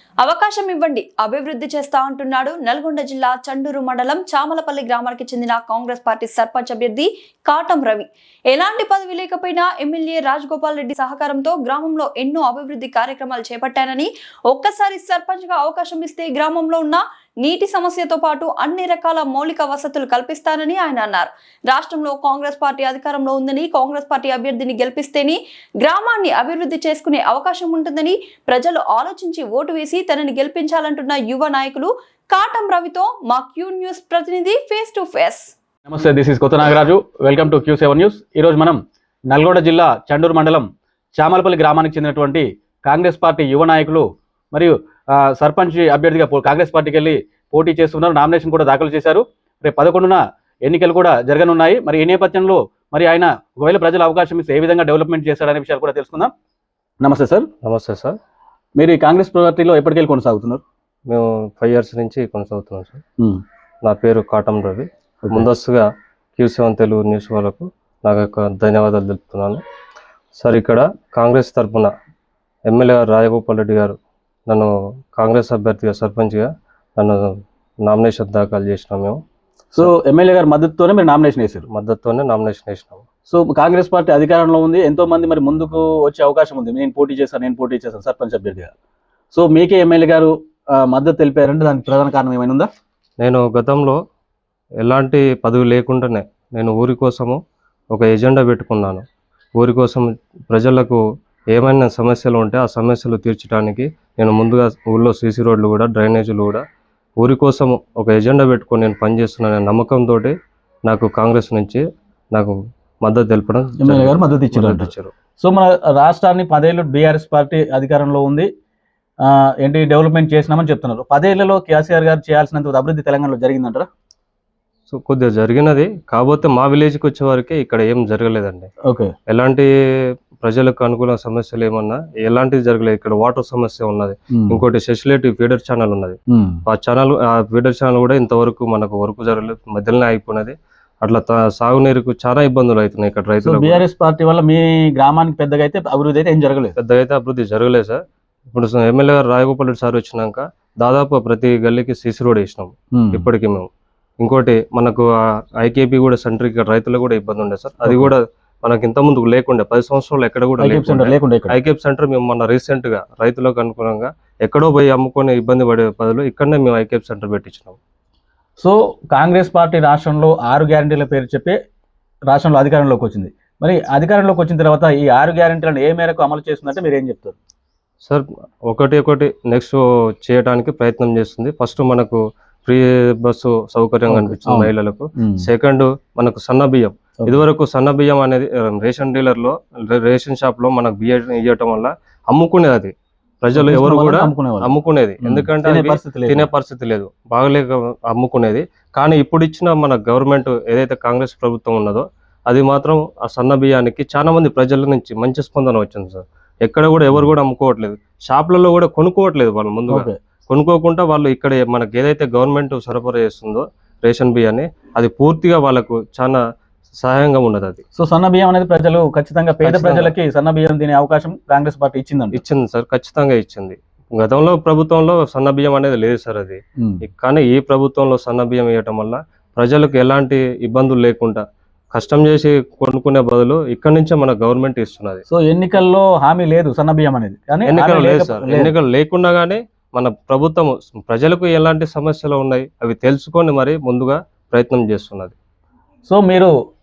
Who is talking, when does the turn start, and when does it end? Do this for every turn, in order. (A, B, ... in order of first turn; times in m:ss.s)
0:00.2-0:35.5 A
0:35.9-0:56.3 B
0:57.0-0:57.5 B
0:57.6-0:58.2 C
0:58.8-1:00.6 B
1:01.1-1:03.0 C
1:03.8-1:05.8 C
1:06.4-1:09.6 C
1:10.4-1:11.9 C
1:12.7-1:14.0 C
1:14.5-1:17.3 C
1:17.8-1:19.2 C
1:19.7-1:21.6 B
1:21.7-1:23.0 C
1:23.3-1:28.7 B
1:29.3-1:32.7 B
1:33.2-1:34.0 C
1:34.8-1:37.4 C
1:37.9-1:39.0 C
1:39.6-1:46.6 C
1:47.2-1:50.3 C
1:50.9-1:51.8 C
1:52.3-1:55.1 C
1:53.8-1:58.5 B
1:59.2-2:03.9 B
2:04.9-2:08.7 C
2:08.8-2:09.1 B
2:09.3-2:09.7 C
2:10.4-2:23.8 C
2:14.3-2:14.6 B
2:16.3-2:16.6 B
2:23.4-2:26.7 B
2:26.8-2:33.7 C
2:32.9-2:33.3 B
2:34.2-2:35.1 C
2:35.6-2:47.8 C
2:37.8-2:38.1 B
2:40.6-2:41.6 B
2:48.6-2:51.6 B
2:52.3-2:57.4 B
2:58.0-3:36.4 C
3:04.1-3:05.5 B
3:13.5-3:16.5 B
3:29.9-3:30.2 B
3:37.0-3:37.8 C
3:37.9-3:42.4 B
3:39.6-3:40.2 C
3:42.3-3:55.2 C
3:55.3-3:58.7 B
3:57.6-4:05.3 C
4:06.0-4:06.5 B